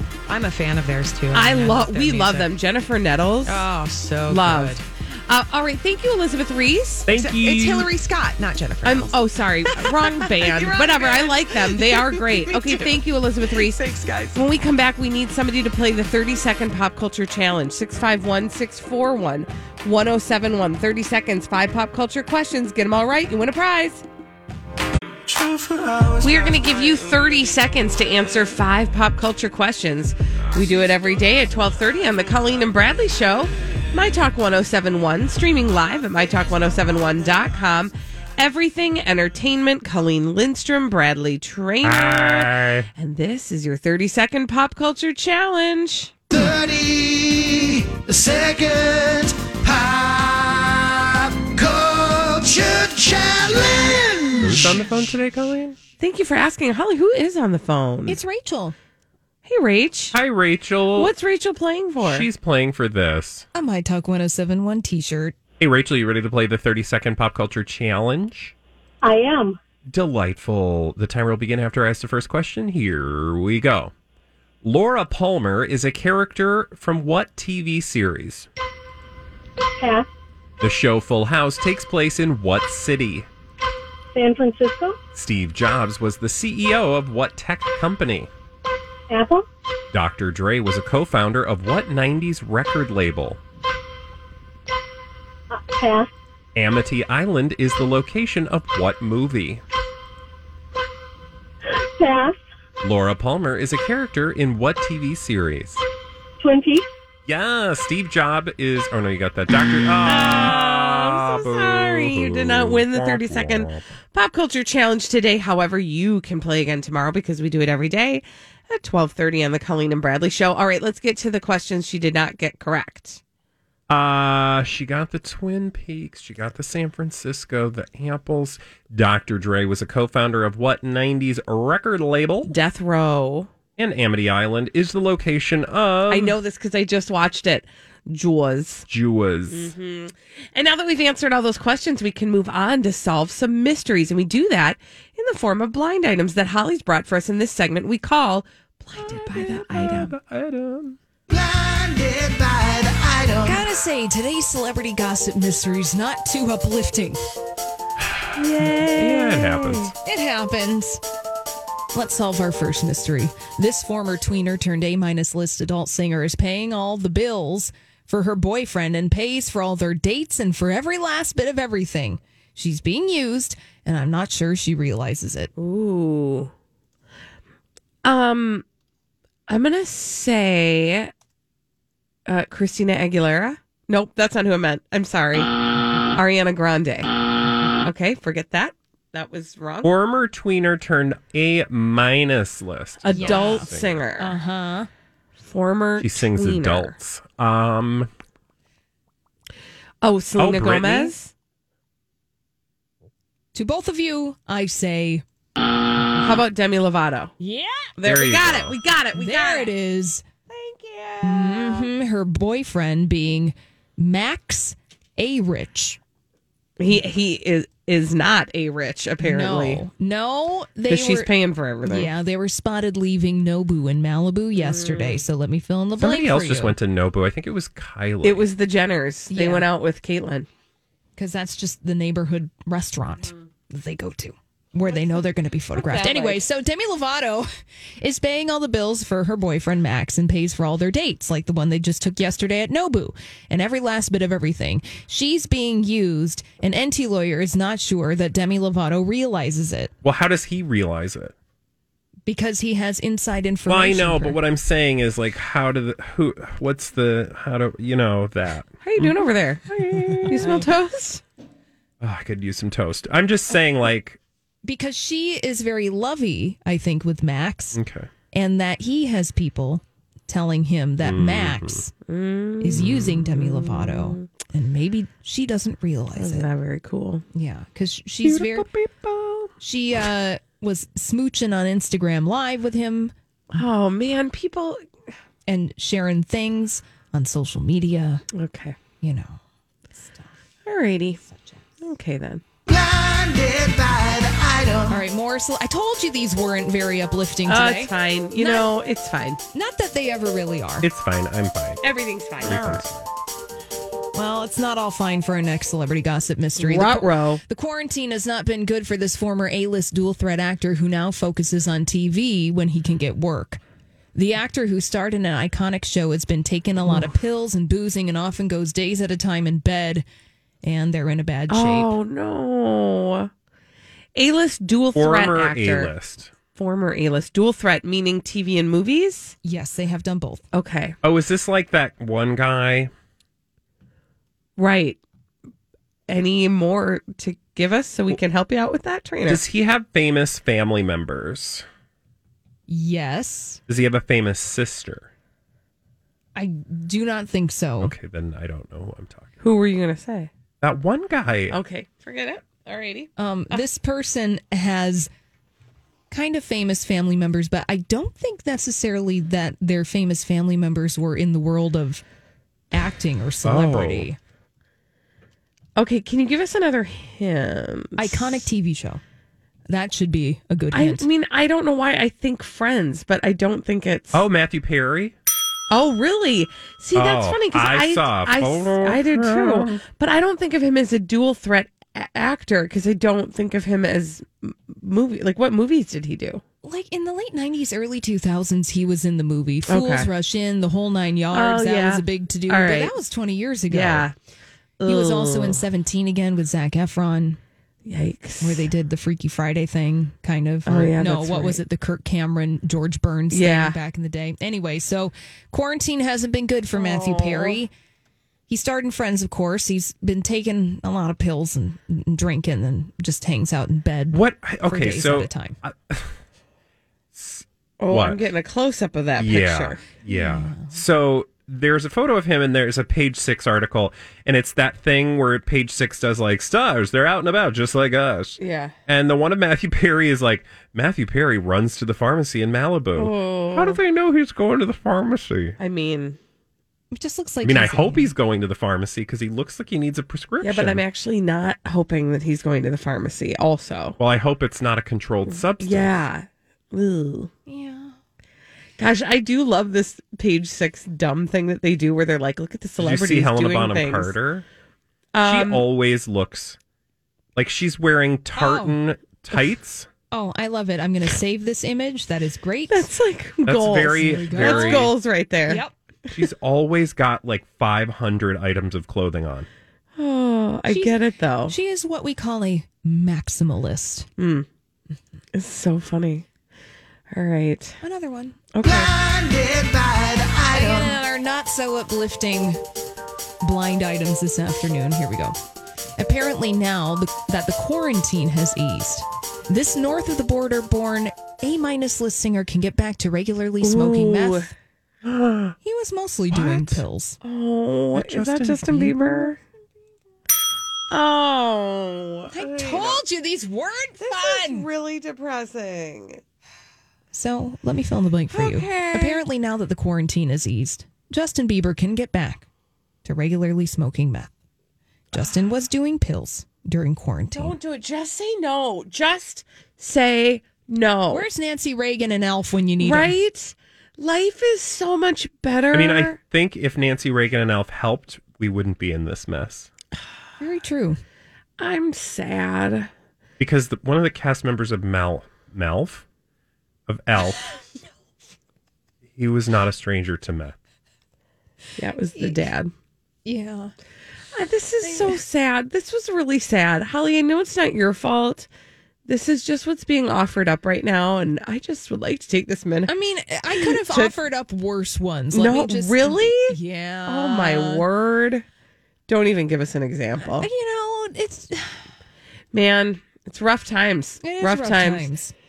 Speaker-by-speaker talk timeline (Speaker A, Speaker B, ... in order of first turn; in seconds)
Speaker A: 0.3-2.5, 3.4-4.8, 7.1-14.4
Speaker B: 1.3-3.6, 4.3-7.1, 8.8-13.8, 14.3-24.0, 26.2-46.1, 56.0-58.2, 59.4-60.1, 60.9-62.3, 110.0-123.2, 132.4-133.5, 136.1-138.9, 139.5-150.1, 158.3-159.9, 175.6-176.5, 178.0-178.6, 179.5-181.1, 182.3-185.5, 186.1-187.1, 187.8-189.9, 193.0-194.3, 195.4-196.9, 200.0-201.3, 206.2-207.3, 208.0-209.7, 210.5-211.9, 216.8-219.8, 220.9-222.1, 224.5-225.2, 228.2-230.5, 234.9-235.2, 235.7-236.4, 258.8-261.2, 272.1-274.2, 276.1-277.2, 283.5-284.8, 288.3-288.8, 290.6-291.2, 291.8-292.4, 297.5-299.4, 301.8-302.8, 306.6-307.4, 321.5-323.3, 324.1-325.9, 326.5-329.3, 330.5-330.9, 334.6-335.0, 336.1-339.4, 349.4-350.3, 351.5-353.6, 365.8-368.5, 370.7-374.2, 375.7-386.4, 389.7-390.1, 391.3-392.9, 393.7-394.1, 394.8-395.6, 397.9-398.7, 400.6-401.6, 403.3-403.8, 406.7-407.6, 417.8-419.8, 428.4-428.7, 432.9-433.8, 435.6-436.2, 440.4-444.0, 445.3-447.3, 448.8-454.1, 455.1-455.6, 462.7-465.6, 470.0-471.5, 474.2-474.5, 475.3-476.2, 477.1-477.8, 478.5-478.9, 493.6-494.5, 497.2-499.4, 500.9-503.0, 504.0-506.2, 508.3-509.2, 517.3-521.3, 522.8-526.2, 531.6-532.9, 541.8-542.7, 544.3-548.5, 549.0-552.9, 553.5-554.1, 555.3-558.4, 559.1-560.5, 562.5-565.1
Speaker C: 7.1-7.9, 41.8-42.9, 54.4-55.8, 60.1-61.1, 62.0-63.5, 65.6-68.5, 69.9-73.9, 74.6-78.5, 80.6-83.3, 85.1-88.3, 89.9-93.4, 96.5-99.6, 102.8-105.8, 107.3-113.8, 123.9-132.5, 133.8-136.4, 138.9-139.7, 149.0-151.0, 158.1-159.9, 189.8-194.0, 196.0-198.1, 200.4-201.1, 208.0-208.8, 226.0-228.5, 250.0-251.3, 253.7-259.2, 259.7-260.5, 262.0-264.2, 267.7-268.1, 271.0-271.8, 272.8-273.1, 278.2-279.5, 300.8-301.8, 302.4-303.1, 324.9-326.3, 331.0-332.9, 339.3-341.6, 343.7-345.1, 347.8-349.3, 350.6-351.6, 363.4-364.1, 374.1-375.1, 376.9-379.8, 414.1-416.1, 417.1-418.2, 419.2-435.6, 437.4-440.8, 444.0-446.0, 452.8-454.4, 455.2-456.6, 457.4-459.9, 463.4-464.9, 466.1-469.5, 495.0-495.5, 496.3-496.8, 497.9-498.9, 525.7-529.7, 533.4-536.0, 536.9-537.4, 539.1-540.5
Speaker D: 25.3-26.6, 46.3-54.6, 151.3-153.6, 292.7-295.0, 478.6-481.0
Speaker E: 58.1-58.7, 63.5-65.3, 153.4-157.2, 160.1-161.0, 161.9-175.5, 193.1-194.9, 203.5-205.2, 207.4-207.9, 209.1-210.2, 211.2-216.0, 219.2-221.3, 221.8-226.8, 229.3-229.7, 231.2-237.5, 238.0-249.9, 252.3-254.4, 264.6-267.8, 268.3-271.9, 272.6-276.5, 277.3-278.7, 279.6-283.1, 285.5-288.2, 289.0-289.4, 289.9-290.3, 291.2-291.6, 294.9-298.7, 299.5-300.9, 304.1-313.6, 314.1-320.0, 320.6-321.9, 329.4-330.4, 342.7-343.6, 346.4-347.9, 353.2-355.1, 356.1-362.0, 362.7-364.2, 368.0-369.0, 369.7-371.1, 386.6-394.1, 394.8-397.4, 398.4-407.7, 408.5-415.6, 420.1-420.8, 436.9-438.1, 447.5-447.9, 458.3-458.8, 460.1-462.9, 464.0-464.9, 465.5-465.7, 470.7-470.9, 471.5-474.1, 477.8-478.4, 480.5-482.6, 483.4-485.4, 486.0-494.5, 495.6-497.2, 498.8-499.3, 502.3-504.7, 507.1-512.5, 513.0-514.3, 515.1-517.5, 521.1-523.1, 530.4-531.0, 542.1-542.5, 543.2-543.7, 544.8-545.2, 552.9-557.9, 560.2-561.8, 564.2-565.3
Speaker F: 69.0-69.6, 79.8-80.1, 84.1-85.0, 89.1-89.4, 95.5-96.1, 101.7-102.4, 106.4-106.9